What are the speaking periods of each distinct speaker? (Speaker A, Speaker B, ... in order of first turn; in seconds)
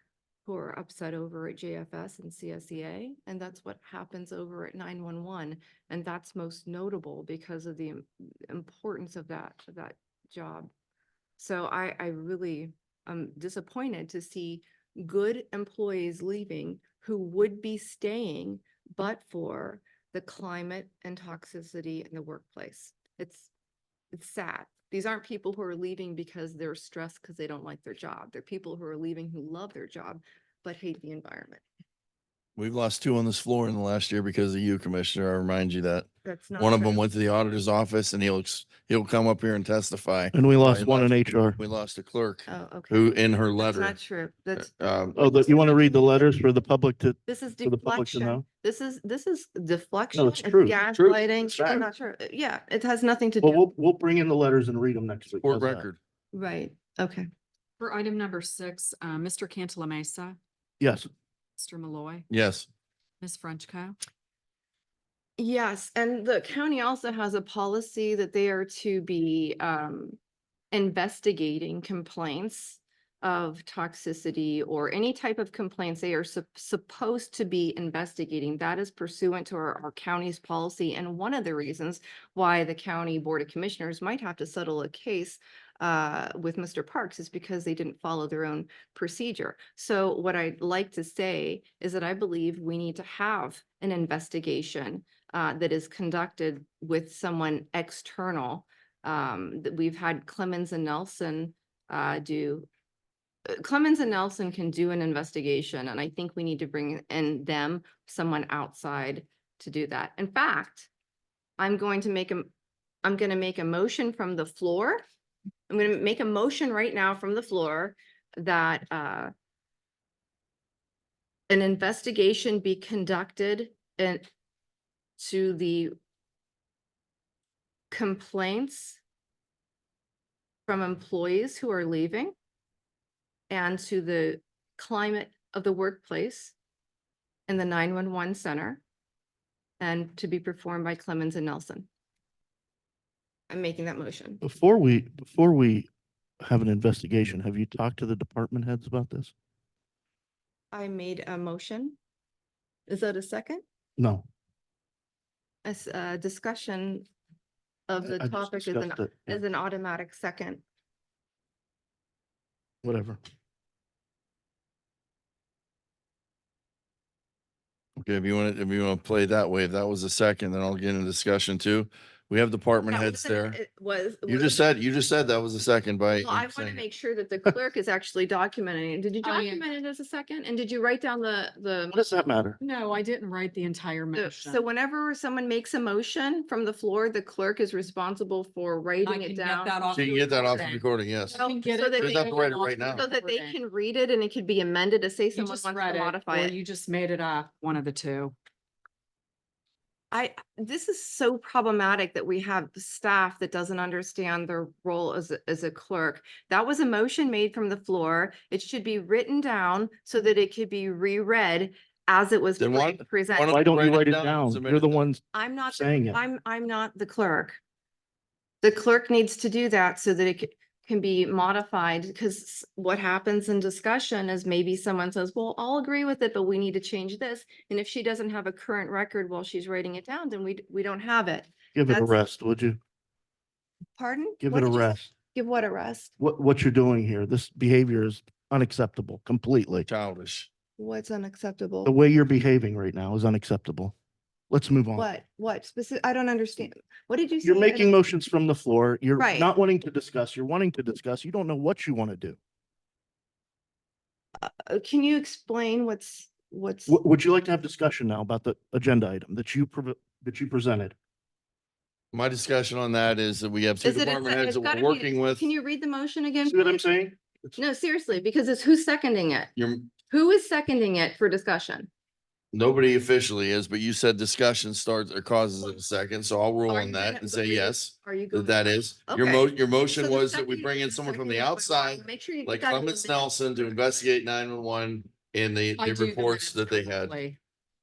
Speaker A: 0.5-10.7, 11.4-23.5, 24.1-31.6, 36.2-37.1, 42.5-46.2, 47.3-53.6, 56.3-57.3, 65.4-70.2, 70.7-102.7, 103.5-110.9, 111.6-112.5, 113.0-115.0, 115.7-119.3, 121.5-124.3, 125.2-126.0, 127.9-129.0, 130.7-132.3, 133.5-136.5, 137.5-138.8, 139.8-141.9, 143.5-144.4, 150.7-152.0, 152.9-153.6, 155.6-157.1, 157.9-160.6, 172.9-174.6, 176.2-182.0, 184.2-190.6, 191.3-196.5, 200.1-213.6, 215.3-217.6, 218.6-232.2, 234.0-236.1, 240.8-241.9, 244.9-248.0, 249.2-249.5, 254.4-257.0, 263.8-266.6, 267.6-269.5, 270.1-271.9, 276.7-283.3
Speaker B: 32.6-44.0, 44.6-45.4, 50.9-51.2, 55.4-56.0, 62.3-62.7, 168.0-173.6, 174.3-176.8, 189.9-191.4, 192.0-193.1, 212.6-215.0, 239.9-240.5, 262.1-265.5, 269.6-269.9, 272.5-287.2
Speaker C: 40.3-41.6, 45.2-48.4, 50.1-50.8, 51.5-51.9, 53.4-55.9, 60.8-61.1, 144.4-145.9, 146.4-149.3, 154.0-154.3, 158.0-159.4, 162.8-163.2, 181.9-182.6, 213.5-216.2, 231.8-232.8, 234.4-235.1, 236.2-239.9, 241.8-243.9, 244.5-245.1, 247.4-252.4, 256.9-260.9, 266.5-267.2
Speaker D: 57.8-60.4, 61.6-62.3, 63.2-64.0, 179.2-179.6, 182.6-184.6, 189.0-193.6, 195.3-198.3, 285.8-287.4